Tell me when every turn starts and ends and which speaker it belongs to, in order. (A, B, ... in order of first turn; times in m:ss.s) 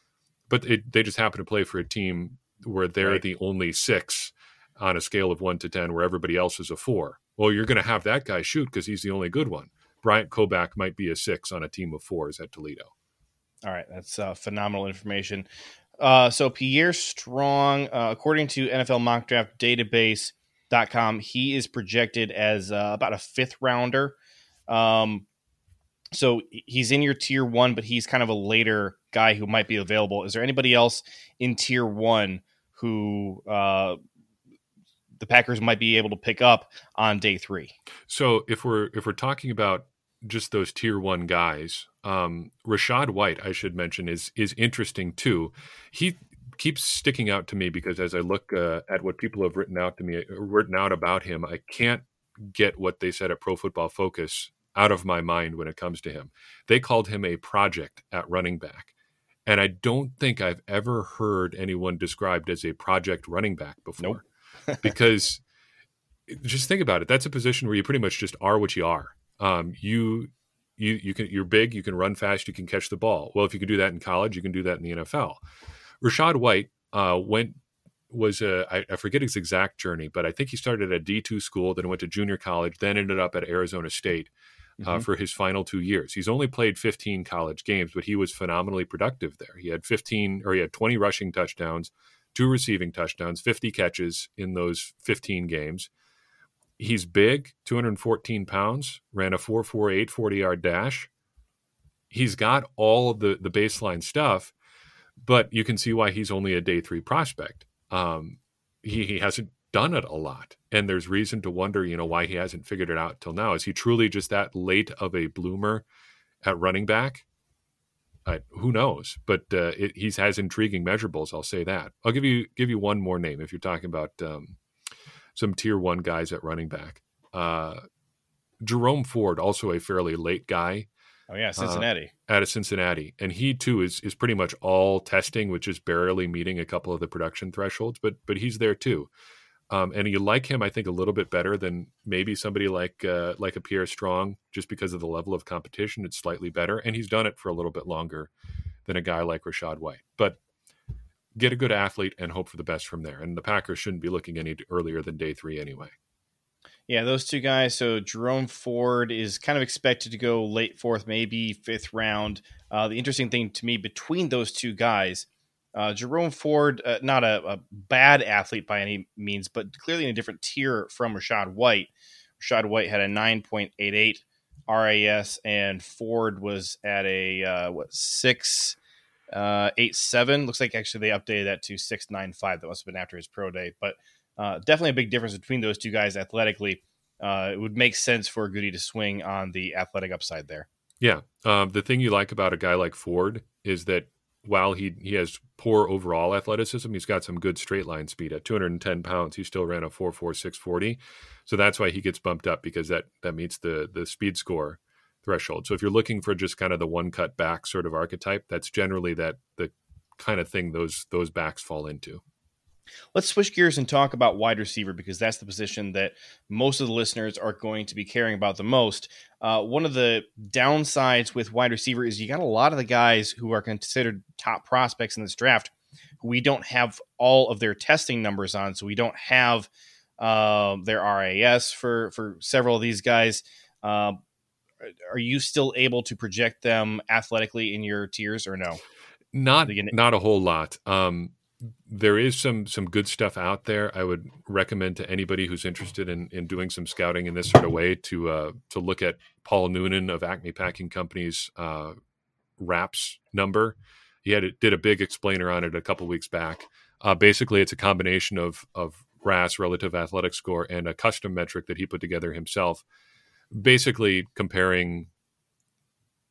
0:00.5-0:12.9 A
0:13.6-0:15.5 B
0:16.0-0:24.2 B
0:24.7-0:25.2 B
0:26.1-0:34.0 B
0:35.2-0:37.7 B
0:38.1-0:58.9 A
0:59.5-1:04.2 A
1:04.0-1:04.8 B
1:04.8-1:05.4 A
1:06.3-1:15.4 A
1:16.0-1:17.6 A
1:18.1-1:35.9 A
1:24.8-1:25.1 B
1:36.8-1:41.1 A
1:42.1-1:44.5 A
1:45.2-1:55.8 A
1:56.4-1:57.2 A
1:58.3-2:04.6 A
2:05.4-2:07.8 A
2:08.6-2:10.9 A
2:11.3-2:12.1 B
2:11.6-2:19.1 A
2:19.7-2:28.3 A
2:28.9-2:30.4 A
2:31.4-2:35.9 A
2:36.9-2:58.8 B
2:59.3-3:10.7 B
3:11.0-3:32.2 A
3:33.1-3:45.7 B
3:46.2-3:54.2 B
3:54.8-3:58.8 B
3:59.3-4:12.0 A
3:59.7-4:00.0 B
4:12.6-4:22.8 A
4:23.5-4:25.1 A